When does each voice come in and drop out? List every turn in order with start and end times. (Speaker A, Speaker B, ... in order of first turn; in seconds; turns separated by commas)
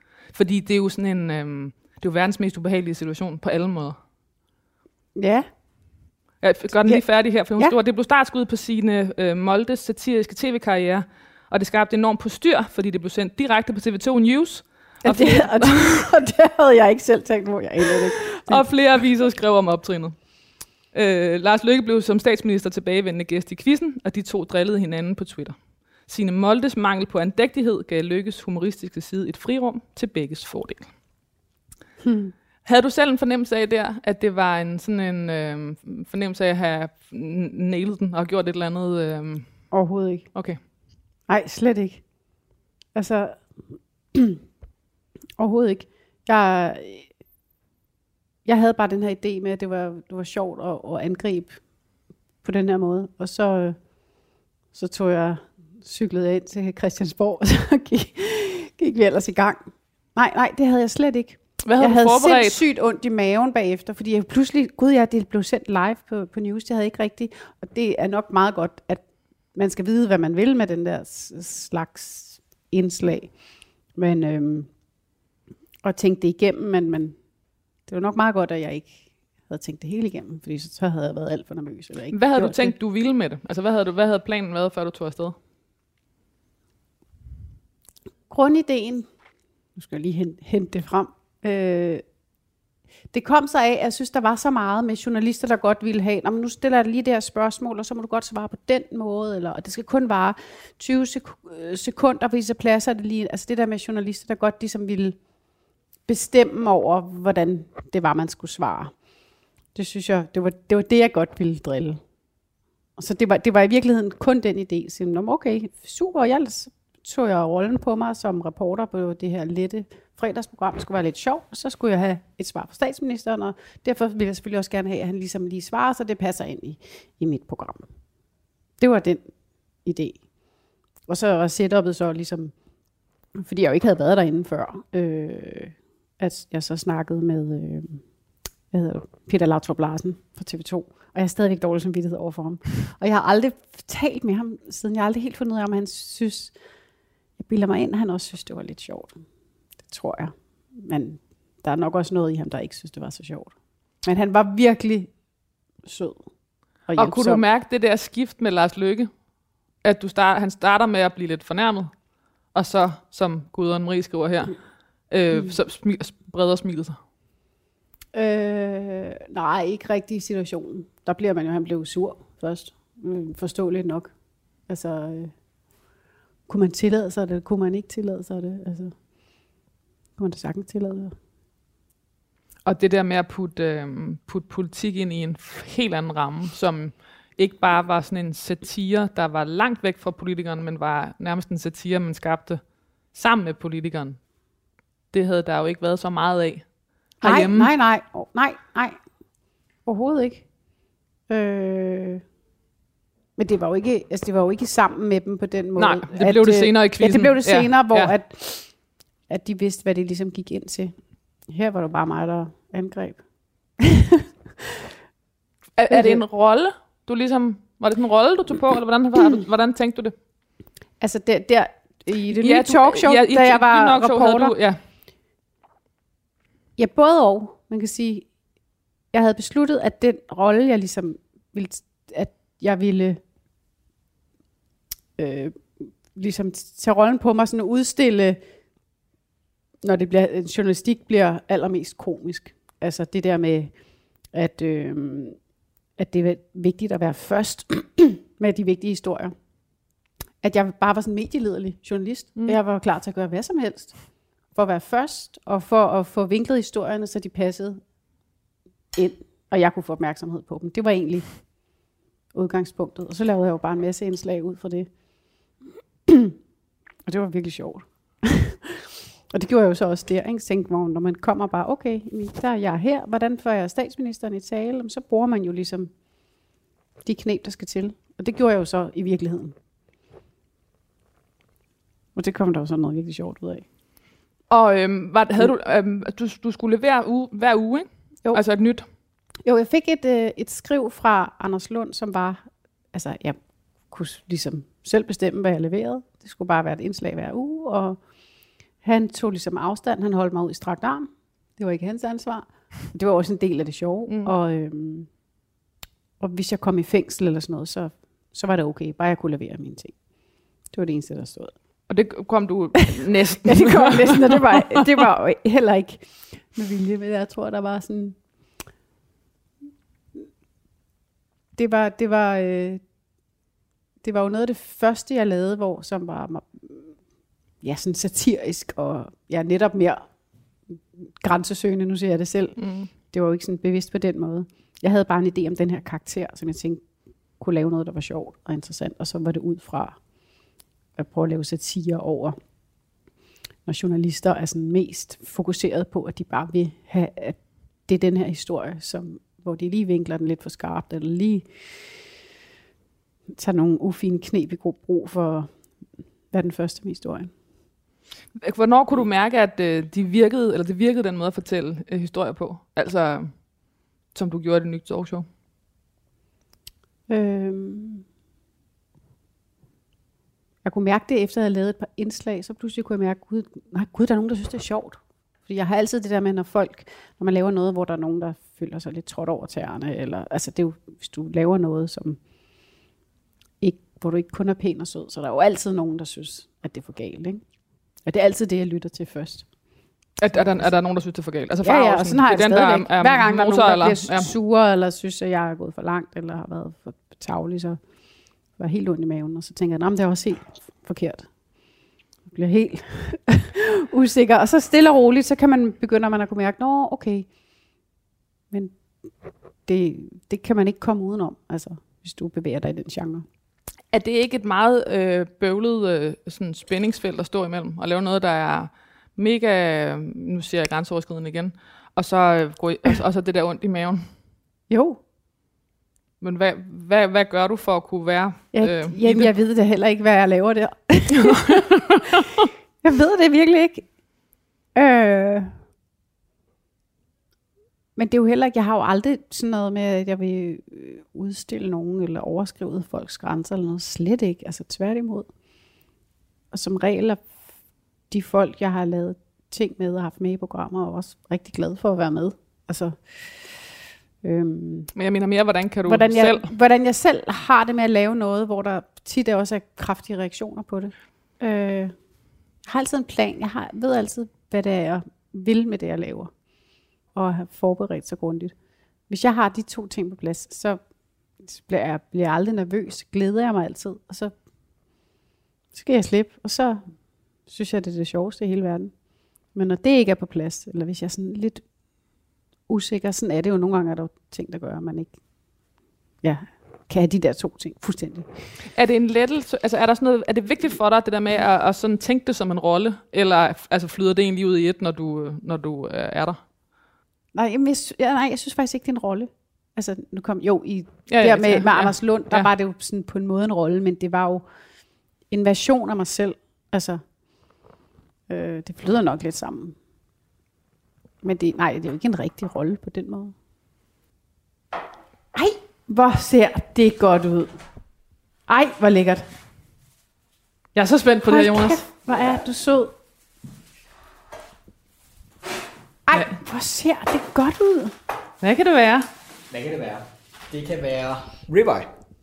Speaker A: 0.3-4.0, Speaker B: 5.2-5.5, Speaker A: 6.4-16.0, Speaker B: 15.0-18.7, Speaker A: 18.5-20.2, Speaker A: 20.9-30.9, Speaker B: 32.0-32.3, Speaker A: 32.6-39.7, Speaker B: 39.7-40.4, Speaker A: 40.3-40.6, Speaker B: 41.3-42.1, Speaker B: 43.0-44.4, Speaker B: 45.4-47.1, Speaker B: 48.5-51.6, Speaker B: 52.4-53.8, Speaker B: 54.7-73.4, Speaker A: 61.6-62.6, Speaker B: 73.9-74.7, Speaker B: 75.8-77.2, Speaker B: 77.9-82.8, Speaker A: 82.1-85.3, Speaker B: 88.3-89.1, Speaker B: 89.8-92.0, Speaker B: 93.1-105.2, Speaker B: 106.1-108.9, Speaker B: 109.8-112.0, Speaker B: 113.0-127.9, Speaker B: 128.8-129.3, Speaker B: 129.8-130.2, Speaker B: 131.1-132.5, Speaker B: 133.3-138.0, Speaker B: 138.7-146.6, Speaker B: 147.4-149.2, Speaker B: 149.8-155.1, Speaker B: 155.8-156.3, Speaker B: 156.9-157.4, Speaker A: 157.0-159.1, Speaker A: 159.8-162.0, Speaker A: 162.5-167.0, Speaker B: 168.1-174.1, Speaker B: 174.7-175.3, Speaker B: 176.5-179.0, Speaker B: 180.2-181.2, Speaker A: 182.7-194.2, Speaker A: 195.1-196.7, Speaker A: 197.2-197.7, Speaker B: 197.2-199.0, Speaker B: 199.8-200.5, Speaker B: 201.3-202.2, Speaker B: 203.4-210.9, Speaker A: 205.8-208.1, Speaker B: 211.5-213.2, Speaker B: 213.8-214.7, Speaker A: 215.8-220.1, Speaker B: 215.9-216.2, Speaker B: 221.0-224.6, Speaker A: 222.4-224.8, Speaker B: 226.8-228.3, Speaker B: 229.1-233.2, Speaker B: 235.2-238.4, Speaker B: 239.8-243.7, Speaker B: 244.3-245.4, Speaker B: 246.0-249.3, Speaker B: 250.4-257.8, Speaker B: 258.9-261.5, Speaker B: 262.3-264.9, Speaker B: 266.1-266.4, Speaker B: 267.1-275.9, Speaker B: 277.1-279.6, Speaker B: 282.1-283.6, Speaker A: 284.5-288.9, Speaker B: 289.4-298.0, Speaker B: 298.8-305.1, Speaker A: 304.1-304.3, Speaker B: 306.2-310.0, Speaker B: 310.7-311.5, Speaker A: 311.9-314.8, Speaker B: 313.2-318.2, Speaker B: 321.6-322.8, Speaker B: 324.0-327.0, Speaker B: 327.6-330.1, Speaker B: 330.7-336.8, Speaker A: 332.6-332.9, Speaker B: 337.4-340.0, Speaker B: 341.0-342.4, Speaker B: 343.7-351.9, Speaker B: 353.3-355.5, Speaker B: 356.3-357.3, Speaker A: 358.4-363.4, Speaker A: 364.1-365.3, Speaker B: 367.1-368.1, Speaker B: 370.6-382.2, Speaker B: 383.6-387.4, Speaker B: 388.0-389.5, Speaker A: 390.2-394.3, Speaker B: 390.3-390.7, Speaker B: 391.6-397.8, Speaker B: 398.6-401.3, Speaker B: 402.3-407.3, Speaker B: 408.5-408.8, Speaker B: 409.7-413.3, Speaker A: 413.9-424.1, Speaker B: 424.7-425.0, Speaker A: 426.2-429.3, Speaker B: 428.5-432.2, Speaker A: 431.3-432.5, Speaker B: 432.8-433.9, Speaker B: 434.8-435.6, Speaker B: 438.0-445.3, Speaker B: 446.5-447.3, Speaker B: 448.1-453.7, Speaker B: 454.2-454.9, Speaker A: 454.9-456.5, Speaker B: 455.9-461.9, Speaker B: 462.6-466.3, Speaker B: 467.1-468.5, Speaker B: 469.1-470.8, Speaker B: 471.4-474.3, Speaker B: 475.7-476.8, Speaker B: 477.5-478.9, Speaker B: 479.5-481.6, Speaker B: 482.7-485.2, Speaker B: 486.2-488.3, Speaker A: 488.7-496.4, Speaker B: 497.3-504.4, Speaker A: 501.1-502.5, Speaker B: 505.3-507.0, Speaker B: 508.3-509.8, Speaker B: 511.2-513.3, Speaker B: 515.3-517.5, Speaker B: 518.5-519.2, Speaker A: 520.8-521.8, Speaker B: 521.3-522.9, Speaker B: 526.1-528.0, Speaker A: 526.1-526.4, Speaker A: 528.4-529.1, Speaker C: 529.5-531.9